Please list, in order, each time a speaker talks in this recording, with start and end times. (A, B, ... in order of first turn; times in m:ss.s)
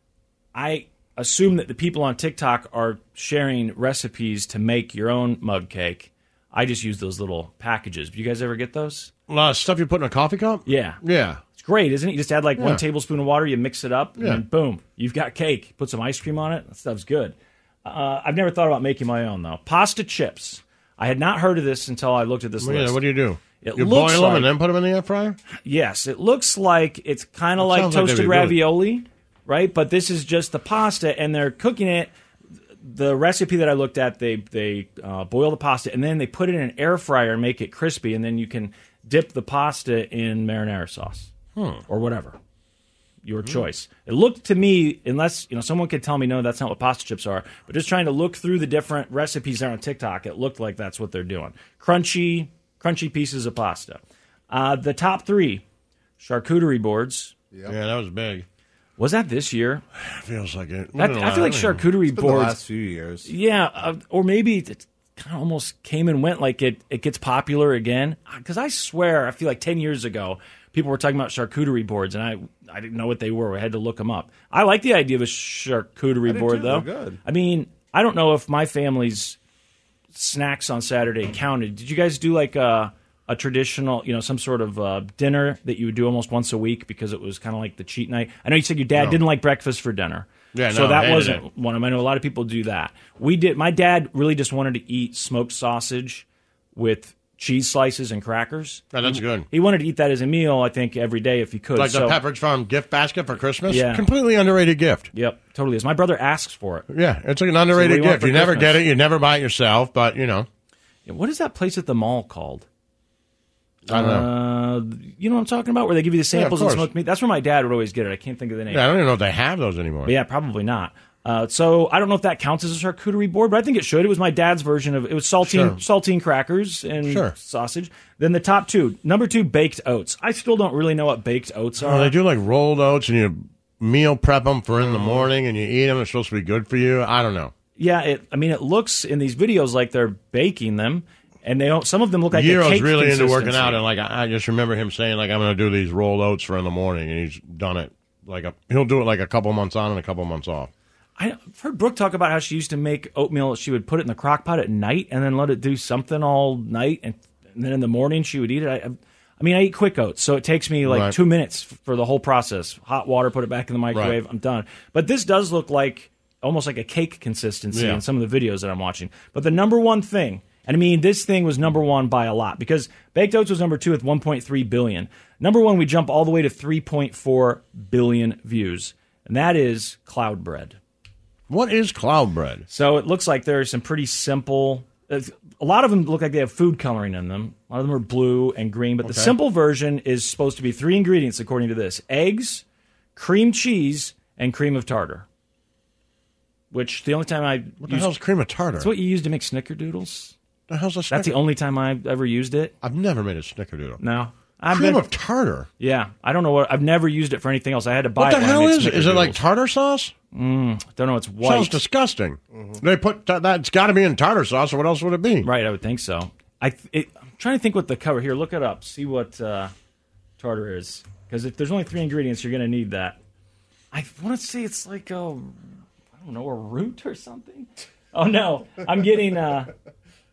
0:00.5-0:09.1 A
0:09.3-0:11.4 B
0:10.7-0:11.0 A
0:11.6-0:23.0 A
0:12.6-0:12.8 B
0:22.6-0:25.4 B
0:23.6-0:24.5 A
0:25.6-0:32.1 A
0:27.6-0:28.6 B
0:32.8-0:41.3 A
0:41.6-0:41.8 B
0:41.9-0:42.4 A
0:43.2-0:55.6 A
0:56.2-0:57.3 A
0:57.7-0:58.5 B
0:59.0-0:59.8 A
1:00.0-1:01.8 B
1:01.0-1:02.6 A
1:02.1-1:03.3 C
1:03.3-1:19.4 A
1:16.3-1:17.2 C
1:20.1-1:42.2 A
1:30.5-1:31.4 B
1:38.9-1:39.5 B
1:41.8-1:45.1 B
1:43.7-1:44.1 A
1:45.1-1:46.9 A
1:46.9-1:50.5 B
1:47.7-1:48.8 A
1:51.1-1:52.7 A
1:53.9-1:54.3 B
1:53.9-1:58.9 A
1:56.3-1:56.9 B
1:58.7-2:00.1 B
2:00.0-2:12.1 A
2:05.4-2:05.8 B
2:07.1-2:07.3 B
2:11.8-2:17.5 B
2:17.8-2:23.8 A
2:22.3-2:30.7 B
2:31.2-3:00.8 A
2:40.8-2:41.2 B
2:43.9-2:44.2 B
2:47.7-2:48.0 B
3:01.5-3:02.6 B
3:02.7-3:12.6 A
3:09.0-3:09.3 B
3:13.2-3:15.3 A
3:16.7-3:18.1 A
3:17.8-3:18.9 B
3:18.8-3:20.3 A
3:20.7-3:21.4 B
3:21.1-3:22.7 A
3:22.8-3:24.0 B
3:24.0-3:25.0 A
3:24.7-3:25.7 B
3:25.8-3:29.4 A
3:28.2-3:30.1 B
3:30.3-3:31.8 A
3:31.4-3:35.5 B
3:32.5-3:32.8 C
3:35.4-3:39.7 A
3:40.4-3:43.2 A
3:43.9-3:45.6 A
3:46.2-3:49.7 A